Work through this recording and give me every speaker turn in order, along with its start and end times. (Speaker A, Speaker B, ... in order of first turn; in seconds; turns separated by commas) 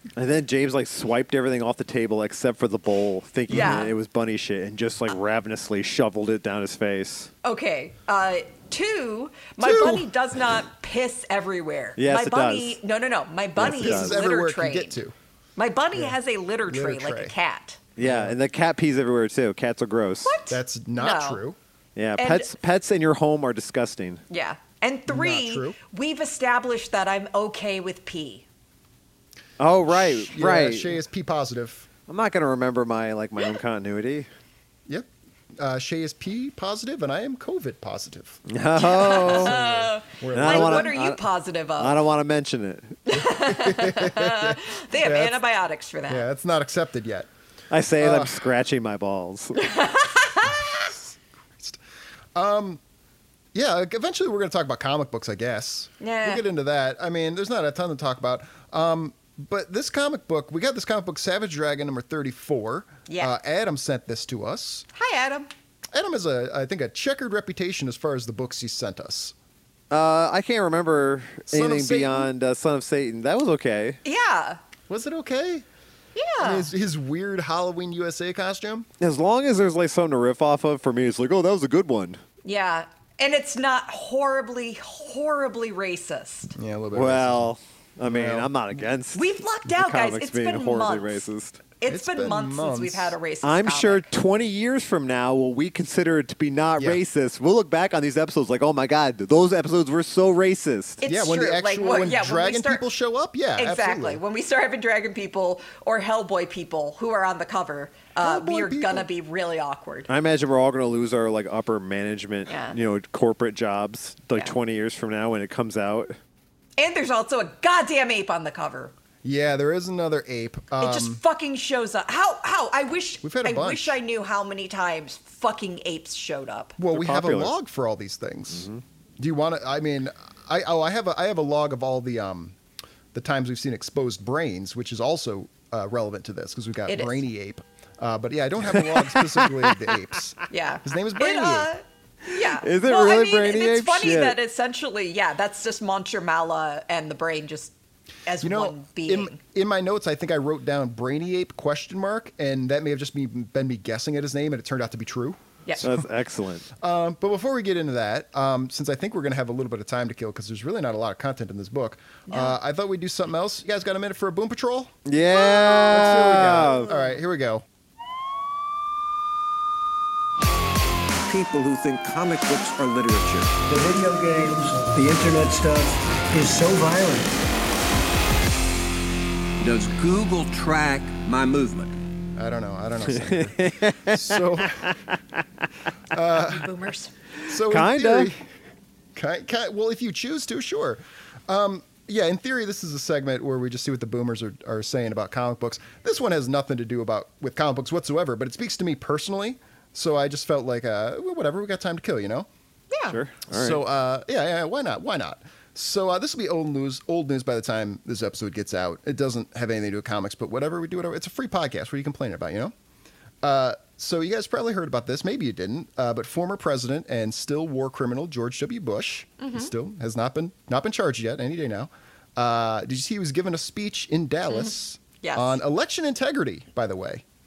Speaker A: 0.2-7.3, Speaker B: 3.5-3.9, Speaker C: 3.5-3.9, Speaker C: 7.4-15.0, Speaker B: 9.6-10.1, Speaker A: 12.0-12.8, Speaker A: 13.6-14.2, Speaker B: 13.6-15.2, Speaker C: 15.6-17.8, Speaker B: 15.9-17.4, Speaker A: 18.0-20.4, Speaker B: 18.0-18.4, Speaker C: 20.2-21.4, Speaker B: 20.5-21.6, Speaker A: 22.0-24.2, Speaker C: 22.2-22.5, Speaker C: 24.3-28.4, Speaker B: 25.1-25.8, Speaker A: 29.6-31.0, Speaker B: 29.9-31.9, Speaker A: 32.1-34.3, Speaker B: 35.6-38.4, Speaker A: 38.5-39.6, Speaker C: 38.8-42.0, Speaker B: 39.0-41.0, Speaker A: 40.3-41.2, Speaker A: 41.8-43.0, Speaker C: 43.1-46.2, Speaker B: 43.1-45.4, Speaker B: 46.1-47.3, Speaker A: 47.7-49.7, Speaker B: 48.0-48.5, Speaker C: 49.6-50.6, Speaker B: 50.5-51.0, Speaker B: 52.4-52.8, Speaker B: 53.5-64.9, Speaker C: 56.0-56.4, Speaker C: 63.1-63.3, Speaker C: 64.9-65.5, Speaker B: 65.9-69.3, Speaker A: 69.9-74.0, Speaker B: 71.5-72.3, Speaker C: 74.0-74.6, Speaker B: 74.9-75.7, Speaker C: 76.2-76.7, Speaker B: 76.4-78.9, Speaker A: 79.0-82.2, Speaker C: 82.4-86.5, Speaker B: 86.5-87.5, Speaker A: 86.9-91.6, Speaker B: 88.0-88.8, Speaker C: 89.1-91.2, Speaker C: 91.8-94.1, Speaker B: 91.9-93.2, Speaker A: 93.4-101.0, Speaker C: 101.0-102.8, Speaker B: 101.0-104.2, Speaker C: 103.6-110.1, Speaker B: 108.2-109.1, Speaker A: 110.1-116.2, Speaker C: 112.5-112.8, Speaker C: 116.8-118.9, Speaker B: 119.2-121.2, Speaker C: 120.8-126.8, Speaker B: 123.2-124.0, Speaker B: 126.8-128.7, Speaker A: 126.9-127.5, Speaker A: 128.5-128.8, Speaker B: 129.2-132.6, Speaker B: 133.1-141.7, Speaker C: 136.9-137.2, Speaker A: 138.7-139.9, Speaker C: 140.5-147.7, Speaker A: 142.6-144.4, Speaker C: 148.3-149.4, Speaker B: 148.4-156.1, Speaker C: 155.7-155.9, Speaker A: 155.8-156.7, Speaker B: 156.8-164.9, Speaker C: 162.3-162.6, Speaker A: 165.1-167.0, Speaker B: 165.9-167.7, Speaker D: 171.3-173.5, Speaker E: 173.7-177.3, Speaker D: 179.6-182.0, Speaker B: 182.4-184.9, Speaker A: 183.0-185.2, Speaker B: 186.1-186.8, Speaker C: 186.3-187.1, Speaker B: 187.5-188.4, Speaker A: 187.5-188.3, Speaker B: 189.2-202.5, Speaker C: 202.9-203.2, Speaker A: 203.1-203.8, Speaker B: 203.5-212.7, Speaker B: 213.4-227.2, Speaker C: 219.4-219.7, Speaker C: 224.5-225.6